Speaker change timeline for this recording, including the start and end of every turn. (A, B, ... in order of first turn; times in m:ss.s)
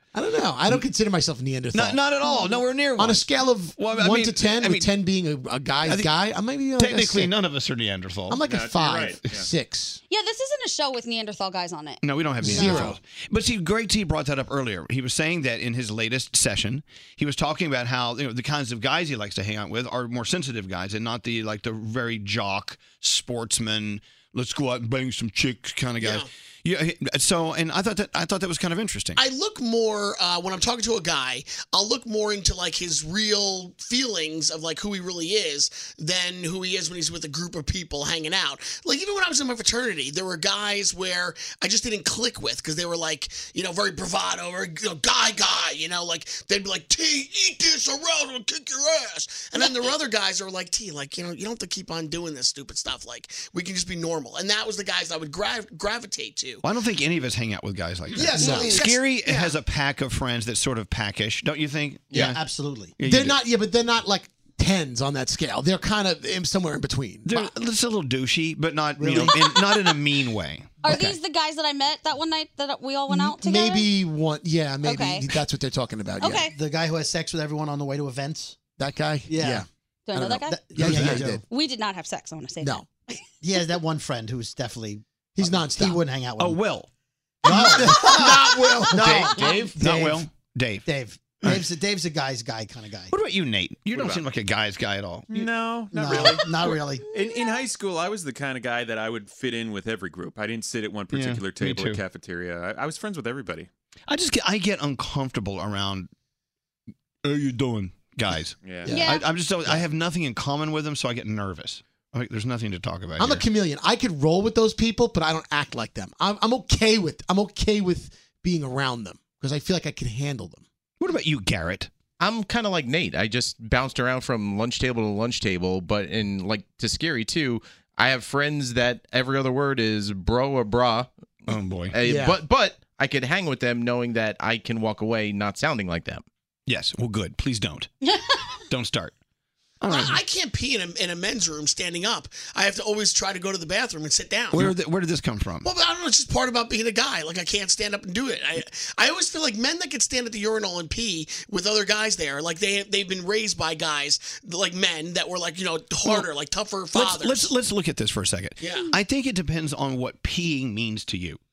0:00.1-0:02.1 A
0:01.7-0:04.9 B
0:03.0-0:07.3 A
0:05.8-0:06.1 B
0:06.8-0:08.4 B
0:08.3-0:10.0 A
0:08.5-0:09.5 C
0:10.1-0:12.0 D
0:12.0-0:29.2 B
0:12.4-0:13.0 A
0:12.5-0:12.8 E
0:26.0-0:26.3 F
0:29.2-0:56.6 F
0:56.6-1:02.4 B
0:58.1-0:59.6 F
0:58.4-0:58.8 D
1:02.2-1:03.0 E
1:03.0-1:03.4 B
1:03.0-1:07.3 A
1:07.2-1:11.2 B
1:09.0-1:09.3 E
1:09.3-1:09.9 D
1:10.8-1:13.9 D
1:13.1-1:16.5 A
1:14.8-1:15.4 D
1:16.2-1:16.6 D
1:16.5-1:18.6 E
1:18.8-1:21.4 A
1:19.3-1:19.6 E
1:20.1-1:20.7 D
1:20.4-1:21.4 E
1:20.8-1:21.3 B
1:21.4-1:23.2 D
1:22.6-1:22.9 A
1:23.4-1:26.6 E
1:25.3-1:26.0 A
1:26.4-1:26.9 B
1:27.4-1:30.0 E
1:27.5-1:30.2 A
1:28.2-1:30.8 B
1:30.9-1:33.1 E
1:33.1-1:35.5 B
1:33.9-1:34.3 C
1:35.3-1:43.7 C
1:35.9-1:37.1 E
1:41.1-1:42.0 B
1:44.1-1:46.1 B
1:47.2-1:53.5 B
1:48.6-1:48.9 C
1:48.9-1:49.3 D
1:53.2-2:00.6 A
2:01.0-2:01.9 B
2:02.2-2:16.2 G
2:11.5-2:12.0 B
2:12.1-2:12.4 A
2:16.7-2:17.9 B
2:18.7-2:19.1 B
2:19.8-2:20.2 B
2:19.9-2:24.7 F
2:24.5-2:25.7 B
2:25.6-2:37.5 F
2:36.9-2:41.4 B
2:38.6-2:38.9 F